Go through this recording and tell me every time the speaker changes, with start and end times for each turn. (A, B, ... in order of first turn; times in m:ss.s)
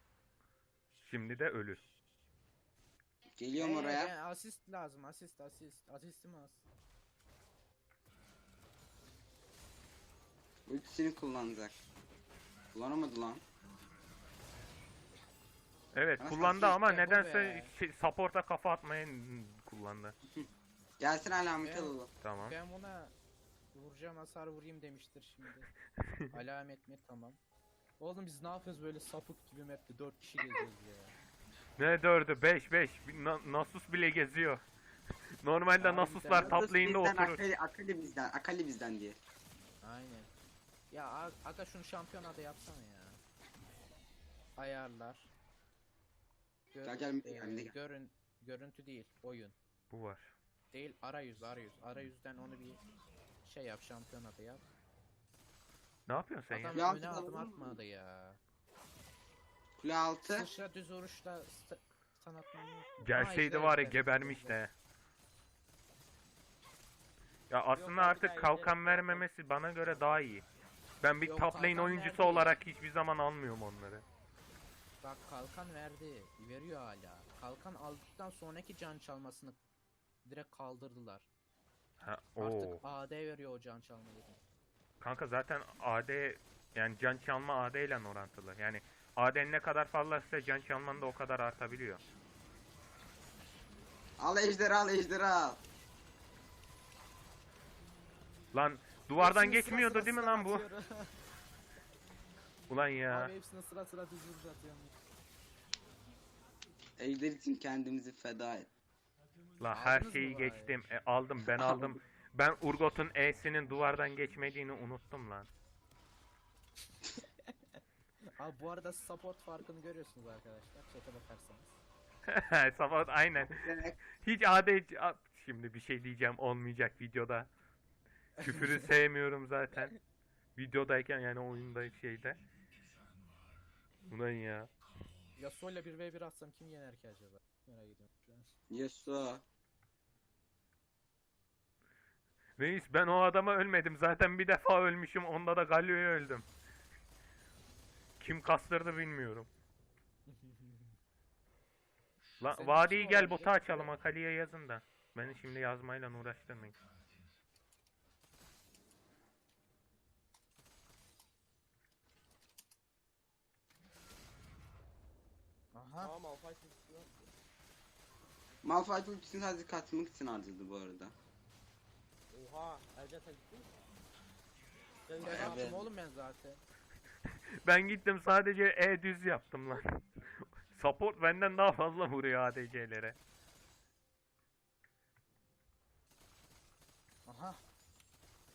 0:01.0-0:01.8 A
0:03.4-0:04.1 B
0:03.6-0:06.6 C
0:10.7-0:11.8 B
0:12.7-0:13.4 B
0:15.9-0:20.1 A
0:16.2-0:16.8 B
0:16.7-0:17.7 C
0:21.0-0:22.1 B
0:21.6-0:23.1 C
0:22.2-0:22.5 A
0:23.7-0:25.7 C
0:26.3-0:27.4 C
0:28.0-0:31.1 C
0:31.8-0:34.6 A
0:35.4-0:37.4 A
0:35.8-0:36.6 C
0:36.4-0:39.2 B
0:39.8-0:40.3 C
0:40.9-0:43.2 C
0:44.6-0:45.3 C
0:46.7-0:49.5 C
0:46.8-0:47.7 B
0:49.9-0:50.4 A
0:50.7-0:52.8 C
0:53.4-0:54.6 C
0:56.1-0:56.9 A
0:56.5-0:58.4 C
0:56.7-0:57.8 B
0:59.8-1:00.5 B
1:00.3-1:04.6 C
1:03.0-1:04.7 A
1:07.5-1:10.4 A
1:07.7-1:09.3 D
1:09.8-1:10.2 D
1:11.0-1:14.0 A
1:11.2-1:12.6 C
1:15.0-1:19.6 C
1:20.2-1:21.3 C
1:22.0-1:22.8 A
1:22.4-1:24.4 C
1:25.0-1:32.0 A
1:34.2-1:35.6 B
1:38.5-1:40.6 A
1:39.2-1:41.2 C
1:42.7-1:43.3 A
1:43.1-1:44.9 C
1:47.0-1:48.7 B
1:49.6-1:55.5 A
1:49.7-1:50.7 C
1:51.5-1:51.9 B
1:57.2-1:57.5 C
1:58.4-2:01.8 C
2:02.3-2:07.5 A
2:03.5-2:04.0 B
2:08.4-2:08.8 C
2:08.4-2:09.9 A
2:10.6-2:12.4 A
2:14.1-2:14.7 A
2:15.4-2:18.5 C
2:18.7-2:19.4 B
2:22.6-2:26.4 A
2:28.2-2:29.5 A
2:30.3-2:31.0 C
2:32.4-2:36.8 A
2:32.6-2:33.5 C
2:32.8-2:33.9 D
2:45.7-2:46.1 C
2:46.0-2:47.3 D
2:48.6-2:51.1 B
2:52.3-2:53.7 D
2:55.1-2:55.7 D
2:55.2-2:55.8 B
2:55.2-2:56.6 C
2:57.6-3:03.2 A
3:07.2-3:07.6 C